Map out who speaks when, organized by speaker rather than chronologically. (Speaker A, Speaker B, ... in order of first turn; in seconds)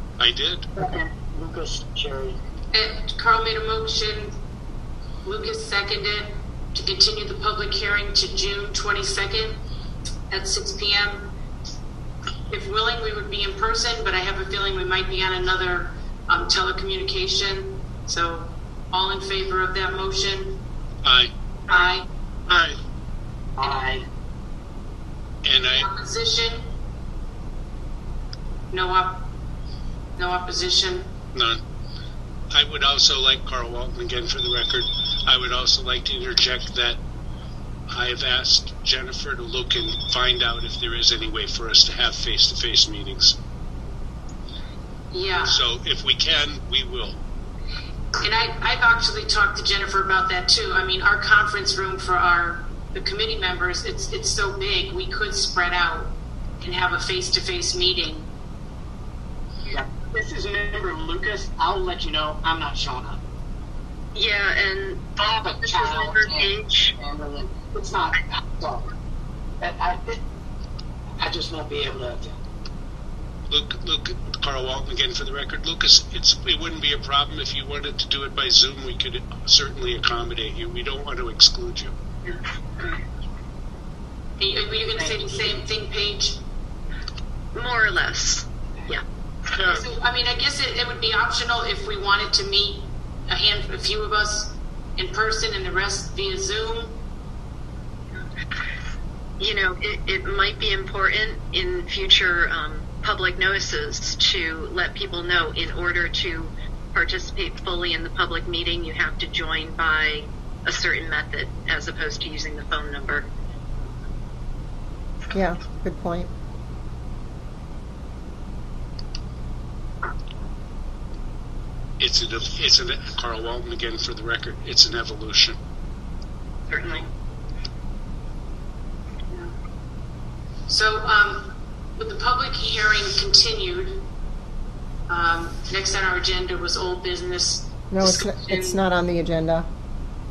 Speaker A: 0.2-0.7, 21.0-21.3, 22.5-22.8, 25.4-25.9, 31.3-31.6, 32.5-37.0, 37.9-43.4, 45.4-47.2, 73.5-81.9, 122.0-125.6
Speaker B: 0.8-2.4, 23.6-24.0, 59.7-63.2, 65.2-68.9, 69.6-70.2, 71.2-72.4, 85.0-85.3
Speaker C: 2.7-4.3, 5.2-9.6, 10.3-11.3, 12.5-20.6, 21.7-22.1, 23.6-23.9, 25.7-26.7, 28.7-29.3, 30.2-31.1, 45.1-45.6, 48.2-58.3, 84.4-86.4, 89.6-96.9, 130.7-134.1, 135.1-138.8
Speaker D: 64.1-65.0, 65.6-66.9, 87.5-89.0, 99.4-113.3, 126.7-127.0
Speaker E: 115.3-116.3, 137.9-139.7